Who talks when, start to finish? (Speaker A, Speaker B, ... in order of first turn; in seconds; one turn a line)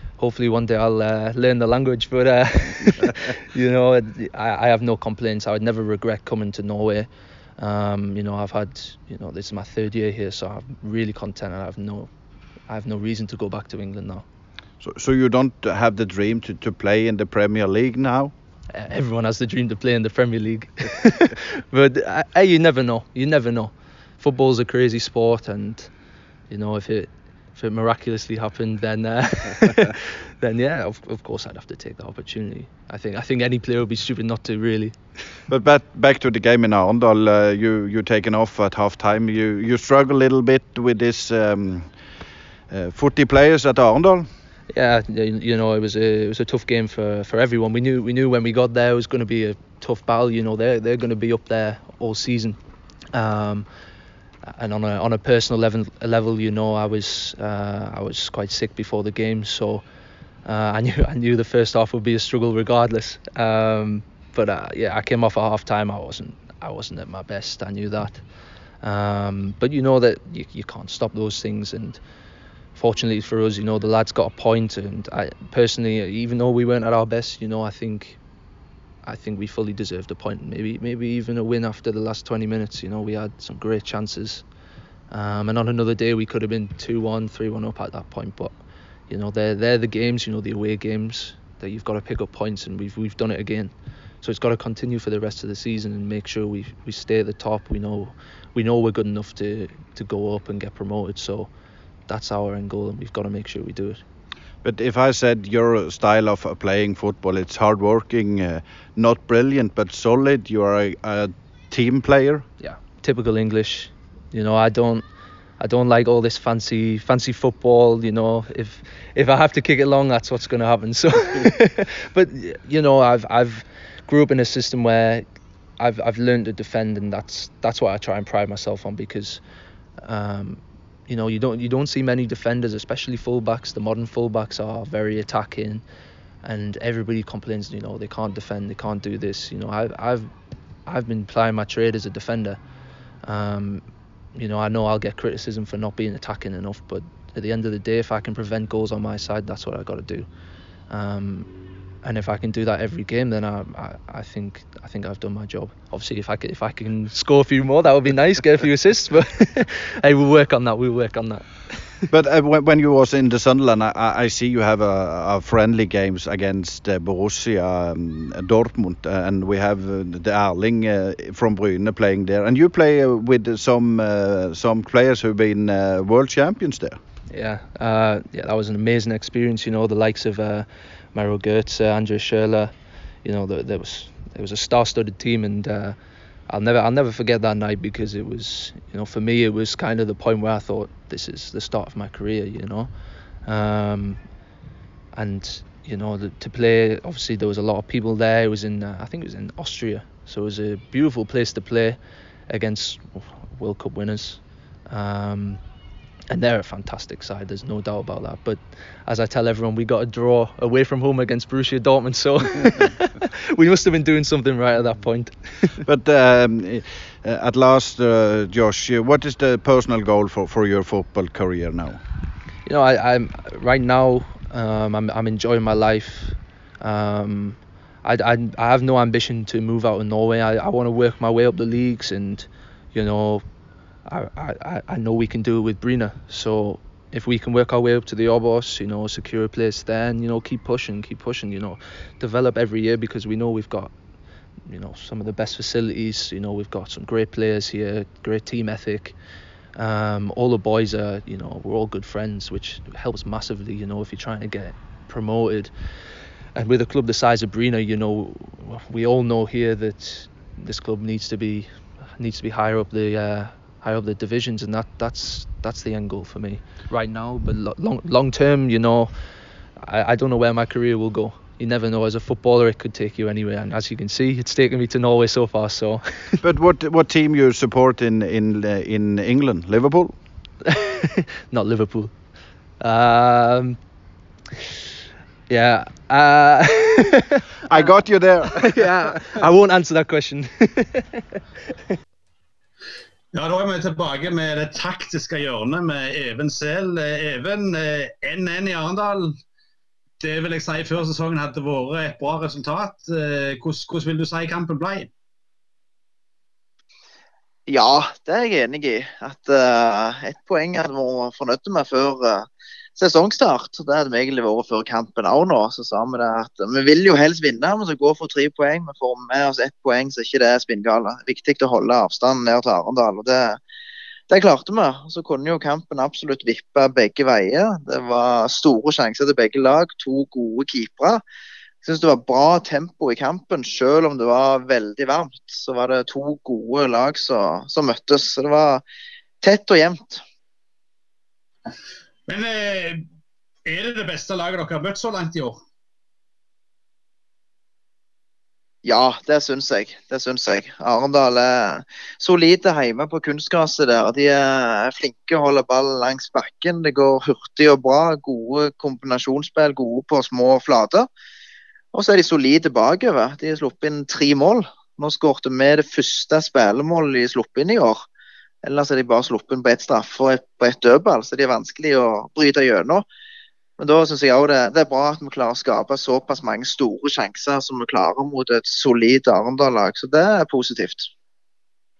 Speaker A: 0.2-12.1
Speaker A: 12.7-14.2
Speaker B: 14.8-18.3
Speaker A: 18.7-25.9
Speaker A: 26.5-35.0
Speaker B: 35.5-41.9
Speaker B: 42.7-44.3
Speaker A: 44.7-52.6
Speaker A: 53.1-53.7
Speaker A: 54.5-59.9
Speaker A: 60.5-68.2
Speaker A: 68.8-72.0
Speaker A: 72.8-78.2
Speaker A: 79.0-84.5
Speaker A: 85.1-88.5
Speaker A: 89.1-101.5
Speaker A: 102.1-104.0
Speaker B: 104.6-112.5
Speaker A: 112.6-115.1
Speaker A: 115.6-125.2
Speaker A: 125.8-129.4
Speaker A: 130.0-135.8
Speaker A: 136.4-140.3
Speaker A: 140.9-142.6
Speaker A: 143.2-143.8
Speaker A: 144.3-150.3
Speaker A: 150.9-151.5
Speaker A: 152.0-161.6
Speaker B: 162.1-177.0
Speaker A: 177.3-186.0
Speaker A: 186.5-192.9
Speaker A: 193.4-194.2
Speaker A: 195.1-205.6
Speaker A: 206.3-215.8
Speaker B: 215.8-222.0
Speaker A: 222.7-233.5
Speaker A: 234.1-243.9
Speaker A: 244.6-249.2
Speaker A: 249.8-255.7
Speaker A: 256.6-269.1
Speaker A: 269.8-276.4
Speaker B: 276.4-280.1
Speaker A: 280.7-282.1
Speaker A: 282.8-283.8
Speaker A: 285.5-287.4
Speaker B: 287.7-288.9
Speaker A: 288.6-291.2
Speaker C: 293.3-299.4
Speaker C: 300.2-305.1
Speaker D: 307.7-323.6
Speaker D: 324.3-331.2
Speaker D: 331.8-338.8
Speaker D: 339.4-340.2
Speaker C: 342.3-343.1
Speaker C: 343.7-345.6
Speaker D: 348.8-361.1
Speaker D: 361.9-368.1
Speaker D: 368.6-373.1
Speaker D: 373.8-381.1